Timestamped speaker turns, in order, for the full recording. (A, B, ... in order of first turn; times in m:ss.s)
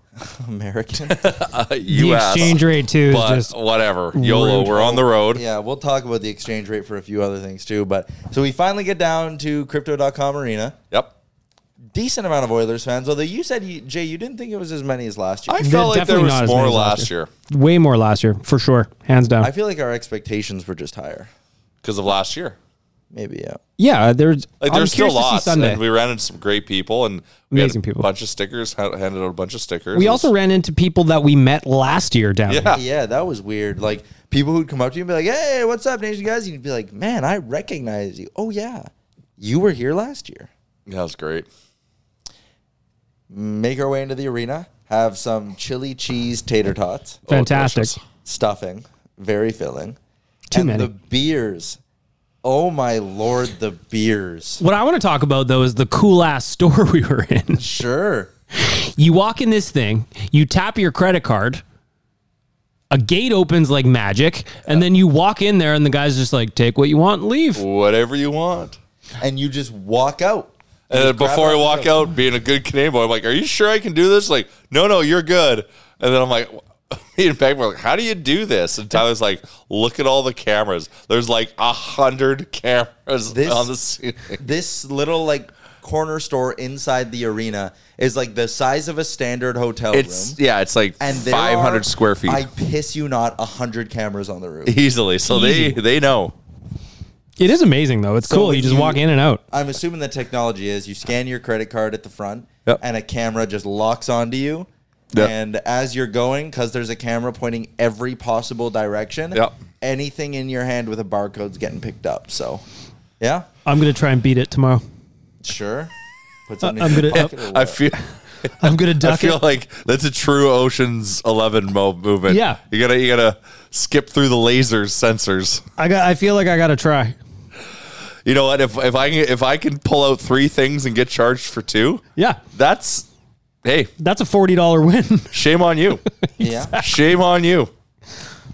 0:00.2-0:01.2 A
0:01.1-0:05.4 B
0:01.9-0:03.5 C
0:04.1-0:04.7 C
0:04.6-0:10.8 A
0:11.9-0:15.6 A
0:15.5-0:17.3 B
0:15.6-0:19.5 C
0:19.4-0:21.3 A
0:21.8-0:22.6 B
0:23.1-0:23.6 A
0:23.8-0:25.8 C
0:24.6-0:30.3 B
0:27.5-0:28.1 C
0:29.9-0:32.8 C
0:32.5-0:32.8 B
0:32.7-0:40.5 A
0:40.9-0:41.5 B
0:43.3-0:47.2 A
0:47.3-0:48.0 B
0:47.3-0:47.9 C
0:48.2-0:50.0 A
0:50.5-0:50.9 C
0:50.5-0:51.8 A
0:52.4-0:54.6 A
0:54.6-0:57.6 C
0:57.6-0:58.3 A
0:58.6-1:01.6 C
1:02.9-1:07.6 C
1:07.5-1:08.8 B
1:09.2-1:12.0 A
1:10.9-1:24.4 B
1:23.3-1:23.7 A
1:24.4-1:30.4 A
1:29.9-1:32.5 B
1:31.0-1:34.8 A
1:34.6-1:36.3 B
1:35.3-1:35.8 C
1:37.4-1:39.4 C
1:38.2-1:52.6 A
1:53.2-1:53.4 A
1:53.6-1:54.8 C
1:55.4-1:55.9 A
1:56.5-1:57.8 A
1:56.6-1:57.3 C
1:57.1-2:05.6 B
1:58.6-1:59.4 C
2:02.3-2:02.6 C
2:05.8-2:07.2 C
2:08.2-2:13.1 B
2:13.6-2:13.9 B
2:14.0-2:15.3 C
2:15.3-2:16.0 B
2:16.4-2:16.8 C
2:16.4-2:16.8 A
2:16.8-2:17.7 B